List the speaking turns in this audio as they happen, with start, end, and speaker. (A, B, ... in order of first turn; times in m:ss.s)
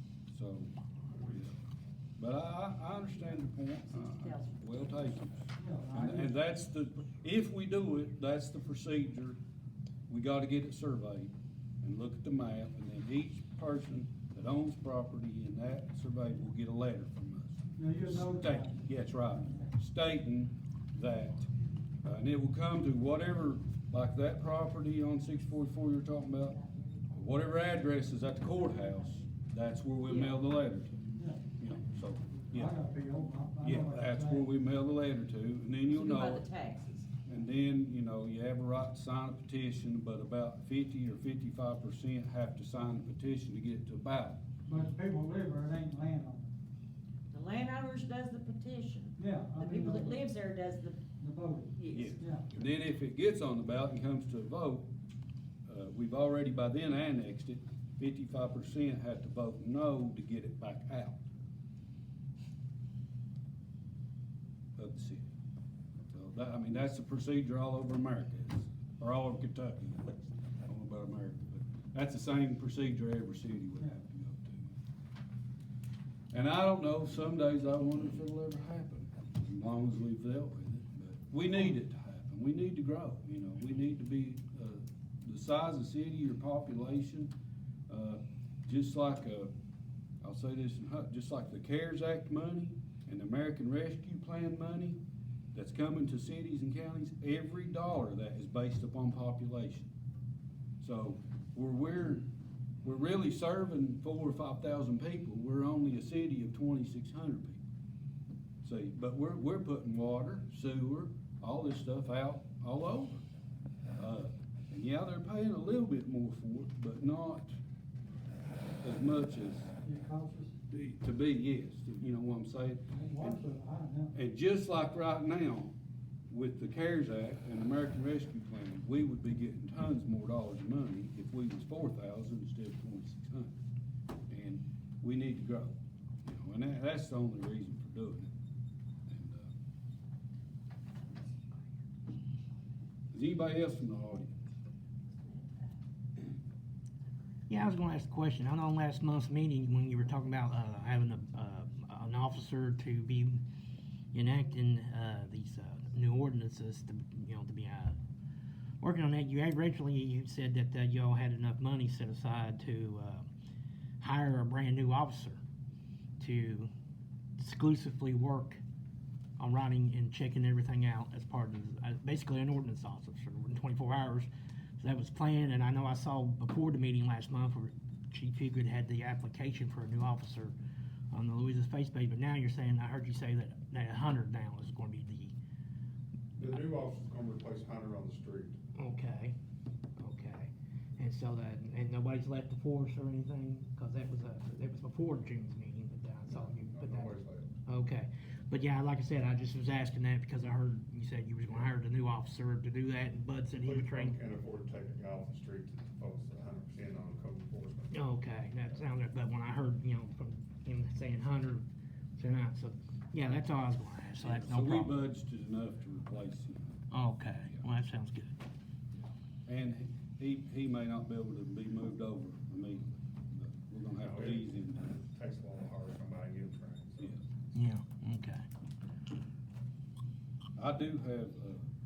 0:00.3-0:01.5 A
0:02.2-0:09.4 A
0:04.2-0:04.7 B
0:04.7-0:05.1 C
0:05.5-0:06.3 D
0:10.1-0:21.5 A
0:17.7-0:19.7 D
0:22.0-0:26.6 A
0:26.7-0:27.0 B
0:27.1-0:31.0 A
0:30.1-0:30.4 C
0:31.2-0:31.5 D
0:31.6-0:32.7 A
0:32.5-0:34.5 D
0:33.6-0:36.4 A
0:35.9-0:37.1 B
0:37.2-0:44.4 A
0:44.6-0:46.5 D
0:47.3-0:51.0 B
0:49.2-0:50.2 D
0:51.2-0:52.4 D
0:51.8-0:52.1 B
0:51.9-0:54.9 A
0:55.6-1:01.2 A
1:04.8-1:05.3 A
1:06.0-1:14.8 A
1:16.3-1:27.3 A
1:27.9-1:29.5 A
1:30.2-1:35.0 A
1:35.5-1:39.9 A
1:40.8-1:42.2 A
1:42.8-1:47.6 A
1:48.6-1:53.2 A
1:54.0-1:57.5 A
1:58.8-1:59.7 A
1:59.8-2:00.5 D
2:00.7-2:03.4 A
2:02.9-2:04.1 D
2:04.1-2:05.7 A
2:06.3-2:13.6 A
2:14.3-2:18.3 A
2:19.1-2:19.5 A
2:23.1-2:24.4 A
2:27.5-2:33.4 C
2:34.1-2:38.0 C
2:38.8-2:43.3 C
2:44.0-2:45.4 C
2:46.2-2:46.7 C
2:47.4-2:48.6 C
2:49.4-2:54.3 C
2:54.8-3:00.5 C
3:01.1-3:05.3 C
3:06.4-3:08.6 E
3:08.8-3:09.4 C
3:10.0-3:24.2 C
3:16.3-3:17.5 E
3:23.6-3:28.0 E
3:27.9-3:31.6 C
3:32.2-3:35.0 C
3:34.2-3:36.8 A
3:36.9-3:38.3 C
3:37.4-3:37.6 A
3:39.4-3:44.9 A
3:44.0-3:47.2 E
3:47.5-3:48.4 C
3:50.6-3:51.6 A